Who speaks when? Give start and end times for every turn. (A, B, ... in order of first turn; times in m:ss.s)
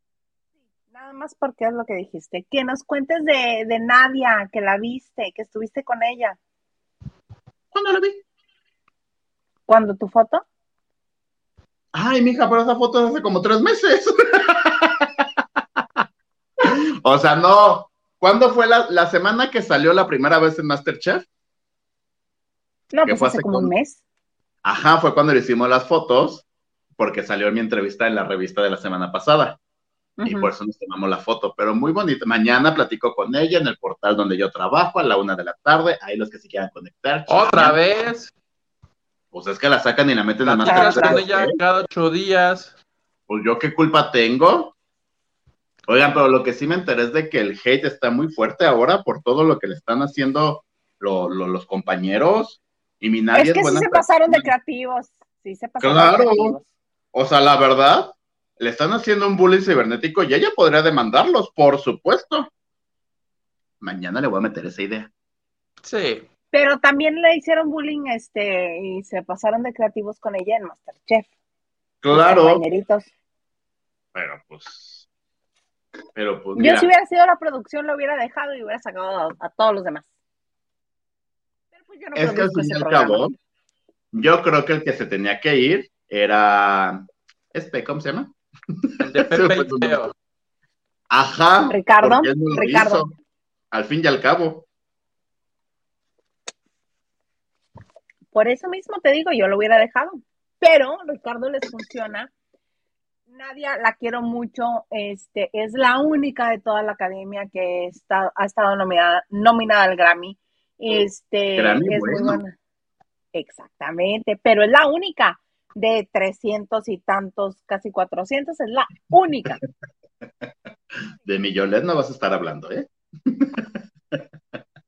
0:00.9-0:06.4 A
0:07.7-0:08.2 B
0:09.7-0:10.4 A
0:11.9-0:15.3 B
0:16.6-0:21.3 B
0:22.9-0:24.0 A
0:23.1-0:23.7 B
0:24.6-0:26.4 B
0:27.0-0:29.6 B
0:30.2-0:30.5 A
0:30.2-0:37.8 B
0:37.3-0:38.3 C
0:39.3-0:41.6 B
0:40.4-0:42.8 C
0:40.6-0:41.2 A
0:43.3-0:44.7 B
0:45.9-0:54.5 B
0:53.4-0:56.7 A
0:55.8-0:56.6 B
0:57.1-1:02.5 B
1:03.8-1:05.1 B
1:05.8-1:06.2 C
1:06.5-1:11.3 A
1:12.0-1:12.6 B
1:12.1-1:13.1 A
1:14.2-1:15.1 B
1:16.2-1:16.9 B
1:16.6-1:20.1 A
1:21.7-1:23.3 A
1:22.2-1:23.3 B
1:24.1-1:30.0 B
1:29.0-1:30.1 C
1:31.1-1:33.1 B
1:31.7-1:33.0 A
1:33.7-1:34.7 B
1:38.3-1:42.3 A
1:43.3-1:52.5 A
1:51.6-1:52.4 B
1:53.3-1:59.6 A
2:01.2-2:04.2 B